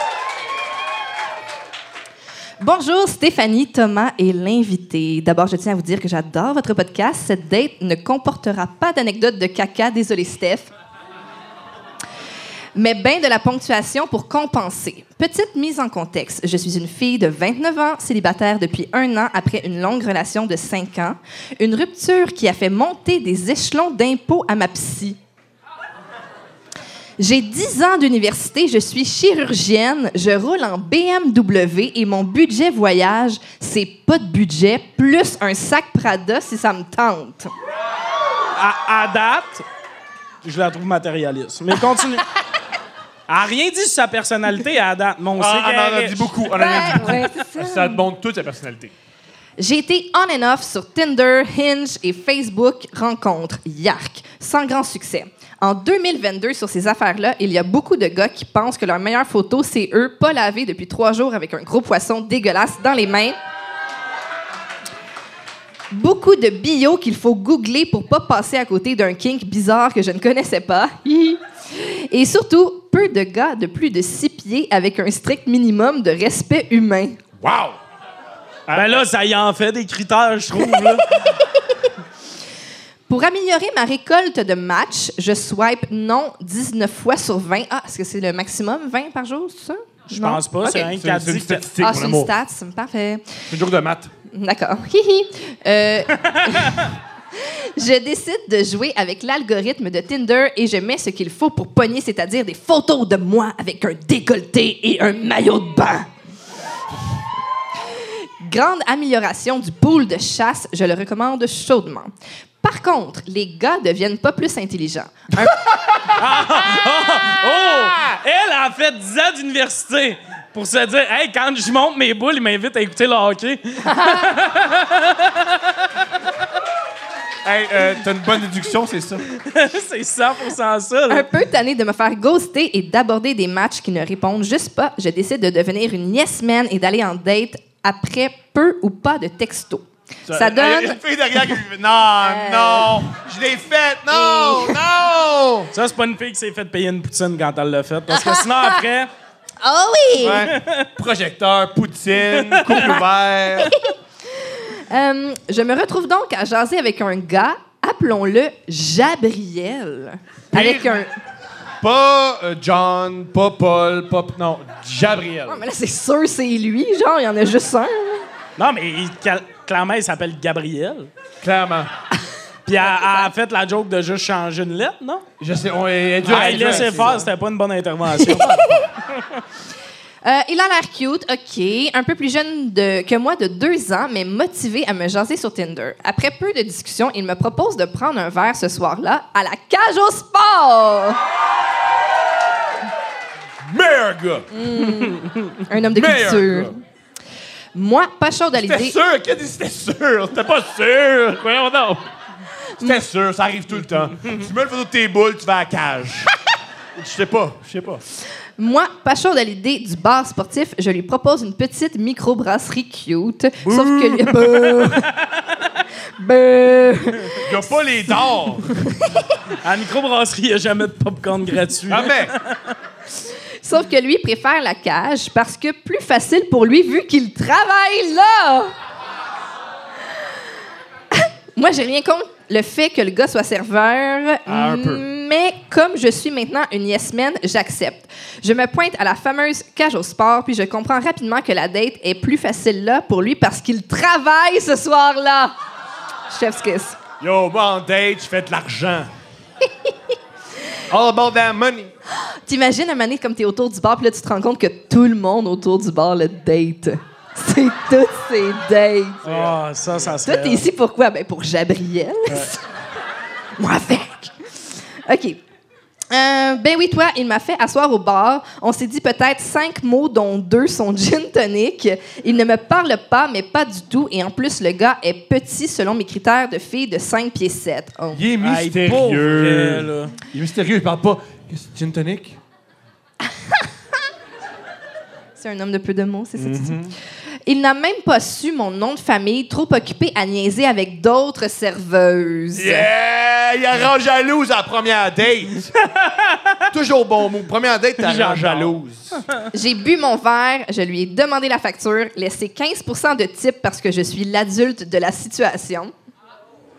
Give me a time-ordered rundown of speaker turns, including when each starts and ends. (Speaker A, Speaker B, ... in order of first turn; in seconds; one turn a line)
Speaker A: 2.6-10.7
Speaker A: 12.7-25.2
Speaker A: 27.2-37.5
Speaker B: 38.5-39.6
Speaker B: 40.4-42.3
Speaker B: 43.3-47.2
Speaker C: 45.4-48.9
Speaker A: 46.5-48.0
Speaker A: 49.6-63.4
Speaker A: 65.9-77.2
Speaker C: 77.4-77.8
Speaker C: 78.7-79.0
Speaker B: 78.7-81.1
Speaker A: 83.1-90.9
Speaker B: 90.1-91.7
Speaker C: 90.9-92.3
Speaker A: 91.8-93.4
Speaker C: 93.5-94.1
Speaker A: 94.3-106.1
Speaker B: 96.2-96.9
Speaker A: 108.4-115.6
Speaker B: 116.1-126.0
Speaker A: 123.8-124.3
Speaker C: 127.4-129.2
Speaker B: 129.3-131.3
Speaker A: 131.1-141.5
Speaker C: 140.3-145.7
Speaker A: 142.2-143.1
Speaker A: 144.1-144.8
Speaker B: 145.7-149.1
Speaker A: 148.1-148.8
Speaker A: 149.6-150.5
Speaker C: 150.2-153.7
Speaker B: 150.4-150.9
Speaker B: 152.3-153.0
Speaker A: 153.6-161.1
Speaker C: 160.5-161.1
Speaker C: 161.8-165.6
Speaker A: 165.5-168.2
Speaker B: 168.6-171.1
Speaker C: 171.4-171.9
Speaker B: 172.7-175.2
Speaker A: 172.7-173.3
Speaker C: 175.4-177.3
Speaker A: 176.2-177.1
Speaker B: 176.2-179.4
Speaker A: 178.2-178.8
Speaker A: 180.2-191.2
Speaker C: 193.6-194.5
Speaker A: 194.5-196.8
Speaker B: 194.8-195.6
Speaker C: 195.9-196.7
Speaker A: 197.7-198.9
Speaker C: 198.6-202.1
Speaker A: 202.7-203.0
Speaker C: 202.8-206.3
Speaker C: 206.9-208.0
Speaker A: 208.6-215.1
Speaker B: 213.7-215.4
Speaker A: 216.2-217.5
Speaker C: 217.4-218.8
Speaker A: 218.6-219.4
Speaker B: 219.6-222.7
Speaker C: 221.9-222.4
Speaker A: 223.6-228.7
Speaker A: 231.1-245.6
Speaker C: 234.4-235.1
Speaker A: 246.3-247.0
Speaker C: 247.2-249.1
Speaker C: 250.9-251.9
Speaker A: 252.2-259.3
Speaker B: 259.2-260.6
Speaker C: 259.2-259.6
Speaker A: 260.2-262.6
Speaker A: 263.6-264.3
Speaker A: 265.1-265.4
Speaker A: 266.1-278.2
Speaker C: 278.1-282.4
Speaker B: 278.4-280.1
Speaker A: 285.4-286.8
Speaker C: 286.4-286.9
Speaker A: 287.4-292.9
Speaker C: 292.5-295.7
Speaker B: 295.7-296.7
Speaker C: 296.7-299.2
Speaker B: 298.0-299.5
Speaker A: 299.5-305.9